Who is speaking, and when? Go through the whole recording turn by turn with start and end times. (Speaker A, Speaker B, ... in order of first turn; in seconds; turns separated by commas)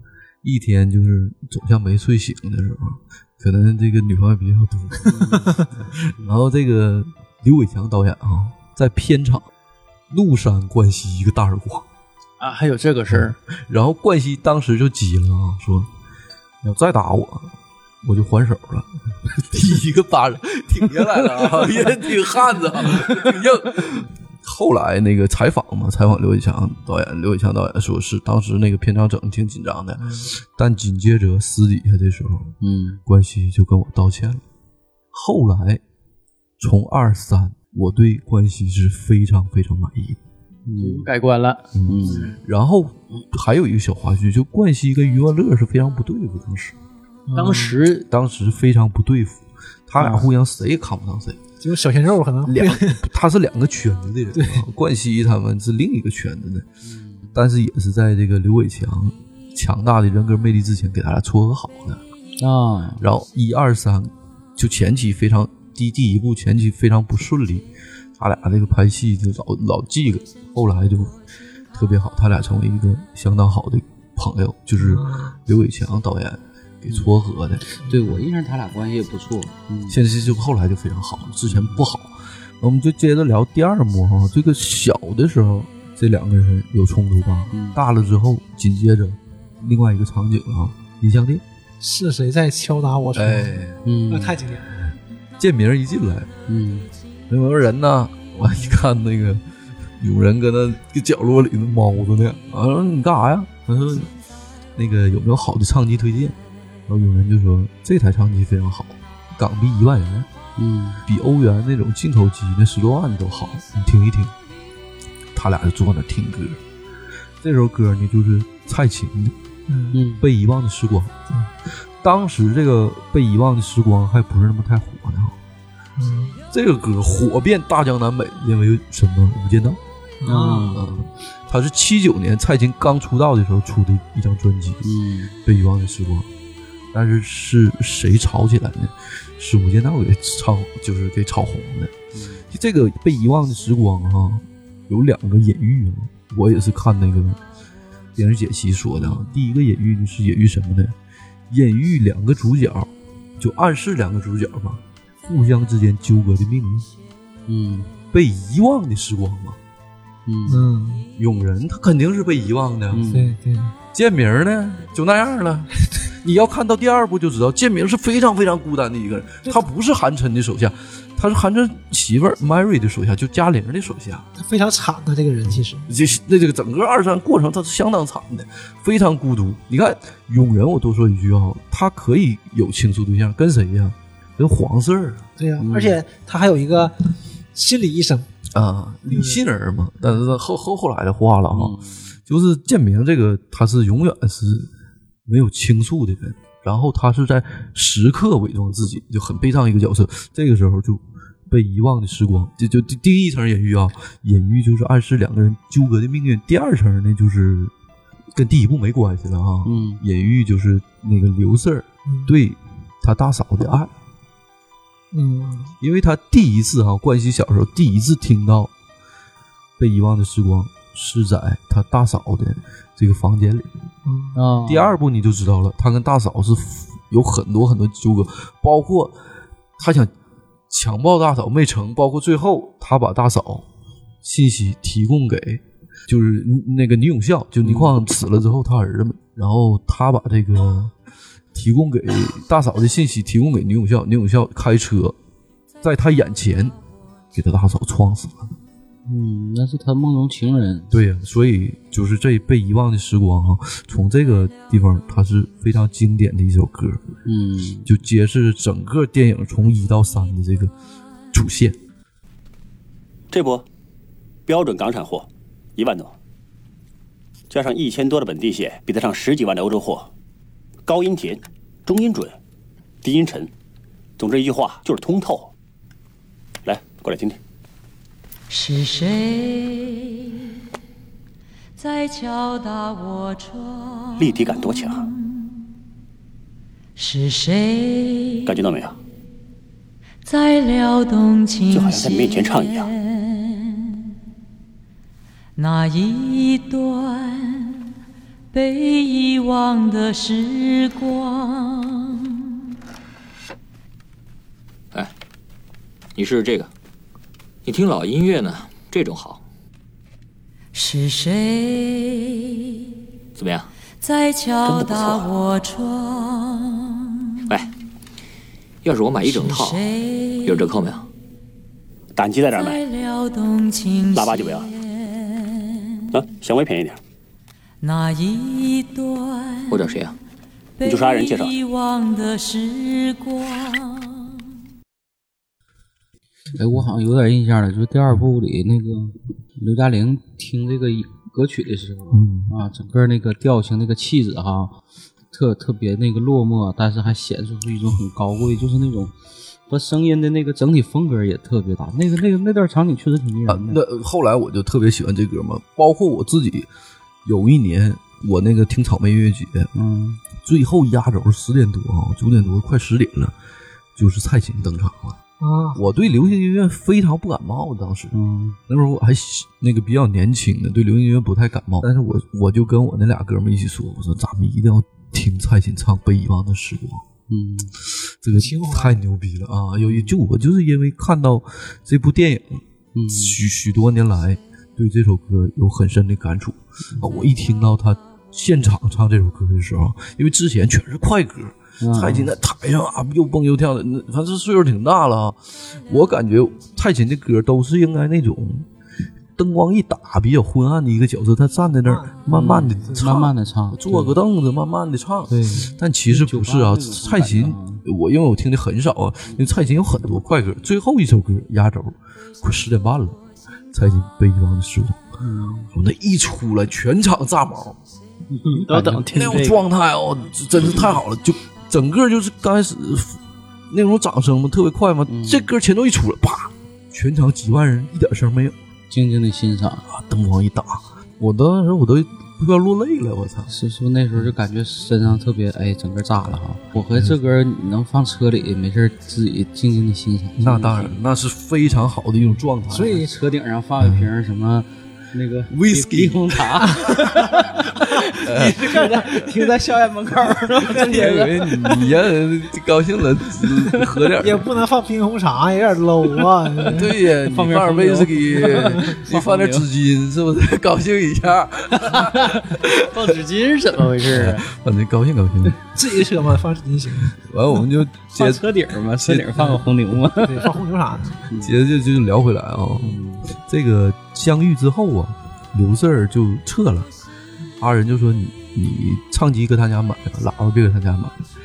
Speaker A: 0.4-9.5, Speaker B: 5.1-5.5, Speaker A: 10.1-11.8, Speaker C: 12.4-13.4, Speaker A: 13.1-15.9, Speaker A: 16.6-17.5, Speaker A: 18.0-34.4, Speaker B: 32.6-33.0, Speaker A: 35.1-35.8, Speaker A: 36.6-40.2, Speaker B: 40.6-41.1, Speaker C: 40.8-42.4, Speaker A: 41.7-46.8, Speaker B: 41.9-42.4, Speaker D: 47.3-47.8, Speaker C: 47.3-48.1, Speaker A: 48.1-51.4, Speaker C: 50.0-50.2, Speaker D: 51.6-53.0, Speaker A: 52.5-56.7, Speaker D: 54.3-54.6, Speaker B: 56.8-57.3, Speaker A: 57.3-62.0, Speaker B: 62.4-63.0, Speaker A: 63.0-71.2, Speaker A: 71.7-77.6, Speaker D: 74.8-75.4, Speaker B: 77.7-80.0, Speaker A: 79.9-91.4, Speaker B: 81.5-81.8, Speaker B: 87.5-87.8, Speaker D: 91.8-94.7, Speaker A: 93.1-93.8, Speaker B: 93.8-94.4, Speaker A: 95.4-96.3, Speaker B: 96.5-96.9, Speaker A: 97.3-104.1, Speaker A: 104.8-110.3, Speaker B: 110.6-111.0, Speaker A: 111.0-114.3, Speaker A: 115.3-116.6, Speaker A: 117.4-119.3, Speaker D: 119.7-120.0, Speaker B: 119.9-120.2, Speaker A: 120.2-121.1, Speaker A: 122.0-125.3, Speaker D: 126.0-126.4, Speaker A: 126.5-129.8, Speaker D: 130.2-130.7, Speaker B: 130.2-130.9, Speaker A: 130.7-134.8, Speaker B: 134.8-135.3, Speaker A: 135.4-136.3, Speaker A: 136.9-141.9, Speaker B: 142.1-142.4, Speaker A: 142.5-147.4, Speaker A: 148.2-150.9, Speaker A: 151.5-156.9, Speaker B: 157.5-157.9, Speaker A: 158.1-159.6, Speaker B: 160.2-160.7, Speaker D: 160.5-161.1, Speaker A: 161.2-163.1, Speaker B: 162.9-163.3, Speaker D: 163.1-163.7, Speaker A: 163.9-165.7, Speaker A: 166.2-174.3, Speaker D: 174.4-175.8, Speaker A: 175.9-185.2, Speaker D: 185.4-186.9, Speaker B: 185.6-186.0, Speaker D: 187.5-188.3, Speaker A: 188.5-191.8, Speaker D: 189.1-189.4, Speaker B: 191.5-192.1, Speaker A: 192.3-194.7, Speaker A: 195.2-207.7, Speaker A: 208.3-213.9, Speaker B: 209.6-210.0, Speaker D: 215.1-215.7, Speaker A: 215.8-218.7, Speaker A: 219.8-223.7, Speaker D: 224.0-224.4, Speaker B: 224.3-224.9, Speaker A: 224.7-229.2, Speaker A: 229.8-230.1, Speaker A: 230.7-233.7, Speaker A: 234.2-240.9, Speaker B: 237.6-237.9, Speaker A: 241.5-245.2, Speaker A: 245.8-246.7, Speaker A: 247.3-248.5, Speaker B: 249.1-250.9, Speaker A: 250.9-257.0, Speaker B: 257.2-257.9, Speaker A: 257.8-260.7, Speaker A: 261.3-261.8, Speaker E: 263.3-263.6, Speaker E: 264.5-266.1, Speaker E: 267.5-270.1, Speaker E: 270.9-272.4, Speaker E: 273.0-273.5, Speaker E: 274.2-275.5, Speaker E: 276.6-277.4, Speaker F: 278.5-280.4, Speaker F: 281.8-285.5, Speaker E: 284.2-285.1, Speaker F: 286.9-288.6, Speaker E: 288.5-289.0, Speaker F: 290.2-294.0, Speaker E: 291.7-292.9, Speaker F: 295.6-297.8, Speaker F: 298.5-302.4, Speaker G: 306.1-306.7, Speaker G: 307.6-309.4, Speaker F: 310.7-312.7, Speaker G: 313.4-313.7, Speaker F: 314.0-317.6, Speaker E: 314.6-315.3, Speaker G: 318.8-319.8, Speaker F: 319.2-320.7, Speaker G: 320.4-321.0, Speaker E: 322.1-322.8, Speaker F: 322.5-326.2, Speaker E: 324.1-324.7, Speaker E: 326.1-327.0, Speaker F: 327.8-329.9, Speaker G: 329.7-330.1, Speaker F: 330.8-334.4, Speaker E: 330.8-331.5, Speaker B: 336.5-344.8, Speaker A: 342.1-342.5, Speaker B: 345.3-349.1, Speaker B: 349.7-353.8, Speaker A: 353.5-356.7, Speaker A: 357.2-359.7, Speaker B: 359.7-360.2, Speaker A: 360.4-363.3, Speaker A: 363.9-365.2, Speaker D: 365.4-365.8, Speaker A: 365.7-368.1, Speaker B: 368.1-368.6, Speaker A: 368.7-377.0, Speaker B: 377.3-377.7, Speaker A: 378.2-398.7, Speaker D: 378.4-379.0, Speaker B: 379.8-380.1, Speaker B: 382.9-383.4, Speaker B: 391.8-392.3, Speaker A: 399.4-413.2, Speaker D: 401.8-402.2, Speaker B: 402.3-404.1, Speaker B: 405.3-407.8, Speaker A: 413.7-415.0, Speaker B: 415.2-415.7, Speaker A: 415.7-417.8, Speaker C: 418.4-419.6, Speaker B: 418.5-419.3, Speaker A: 419.1-428.5, Speaker B: 425.1-425.5, Speaker B: 428.9-429.8, Speaker A: 429.9-433.5, Speaker B: 433.5-441.0, Speaker A: 436.9-437.2, Speaker A: 440.4-443.0, Speaker D: 442.7-443.1, Speaker B: 442.8-451.8, Speaker A: 443.8-444.1, Speaker A: 445.5-447.3, Speaker D: 446.7-451.4, Speaker A: 448.2-449.1, Speaker A: 450.6-454.5, Speaker D: 454.2-456.9, Speaker A: 456.7-463.2, Speaker B: 457.2-459.6, Speaker B: 461.9-462.4, Speaker B: 462.9-464.4, Speaker C: 463.8-464.3, Speaker A: 464.0-465.6, Speaker D: 465.7-467.1, Speaker A: 467.1-469.6, Speaker B: 468.1-470.6, Speaker D: 470.2-471.2, Speaker A: 471.3-476.9, Speaker B: 472.8-473.2, Speaker A: 477.6-481.1